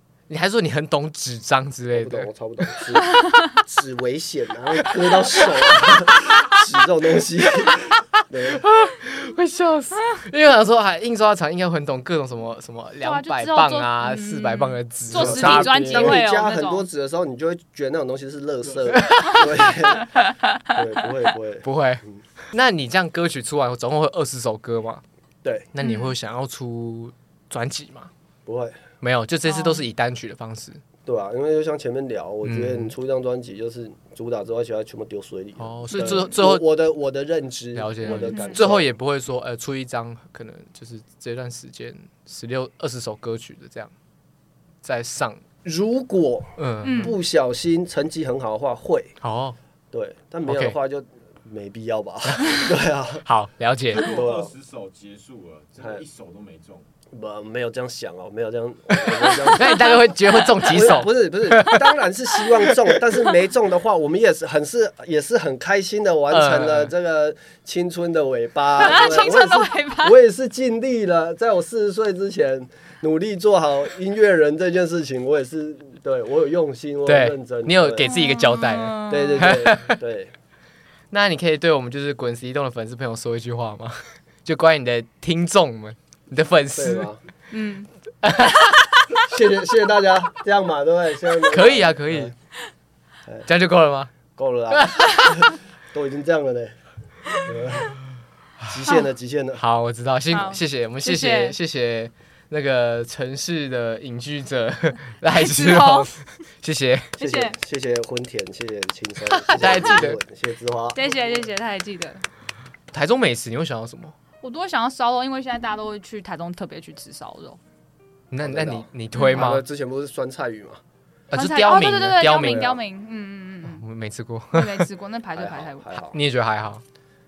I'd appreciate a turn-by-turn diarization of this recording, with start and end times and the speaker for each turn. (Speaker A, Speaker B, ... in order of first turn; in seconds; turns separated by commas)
Speaker A: 0.3-2.3, Speaker B: 1.9-8.7, Speaker A: 8.5-16.2, Speaker C: 13.0-16.8, Speaker B: 15.1-20.1, Speaker D: 18.6-19.0, Speaker A: 18.9-19.7, Speaker C: 19.4-20.6, Speaker B: 20.7-22.2, Speaker A: 21.6-25.0, Speaker A: 25.7-28.1, Speaker C: 25.8-26.1, Speaker B: 28.4-28.8, Speaker A: 29.0-30.8, Speaker C: 29.4-29.8, Speaker B: 31.1-38.9, Speaker A: 32.4-32.9, Speaker A: 35.6-36.6, Speaker C: 35.9-36.2, Speaker A: 37.8-43.9, Speaker C: 38.0-38.6, Speaker A: 44.8-45.4, Speaker B: 45.6-49.2, Speaker A: 46.6-47.1, Speaker C: 46.8-47.2, Speaker A: 49.2-49.6, Speaker B: 49.9-53.2, Speaker A: 50.4-50.8, Speaker A: 53.2-54.1, Speaker D: 53.9-56.9, Speaker B: 54.0-54.5, Speaker B: 55.8-56.0, Speaker B: 57.1-59.9, Speaker A: 59.1-62.0, Speaker C: 59.3-61.0, Speaker B: 60.6-78.1, Speaker A: 62.7-63.0, Speaker A: 66.3-66.9, Speaker C: 68.8-70.2, Speaker A: 77.0-80.0, Speaker C: 78.0-79.6, Speaker B: 79.1-80.3, Speaker A: 81.1-87.1, Speaker B: 86.7-87.2, Speaker C: 87.5-87.9, Speaker A: 88.2-89.1, Speaker B: 89.2-92.3, Speaker A: 91.5-92.3, Speaker A: 93.5-94.1, Speaker B: 94.3-96.8, Speaker A: 94.7-95.5, Speaker B: 97.3-98.0, Speaker B: 98.6-99.6, Speaker A: 99.6-107.1, Speaker C: 100.3-101.5, Speaker C: 105.3-106.1, Speaker C: 107.2-107.5, Speaker B: 107.2-111.5, Speaker A: 109.3-110.2, Speaker C: 109.6-110.0, Speaker C: 110.9-112.2, Speaker A: 112.9-114.1, Speaker C: 114.4-117.6, Speaker A: 118.3-119.6, Speaker B: 118.4-120.8, Speaker C: 119.2-119.5, Speaker A: 121.3-122.7, Speaker C: 121.3-123.8, Speaker B: 122.3-122.8, Speaker A: 123.6-124.9, Speaker C: 124.5-125.9, Speaker B: 125.3-126.2, Speaker A: 126.1-126.8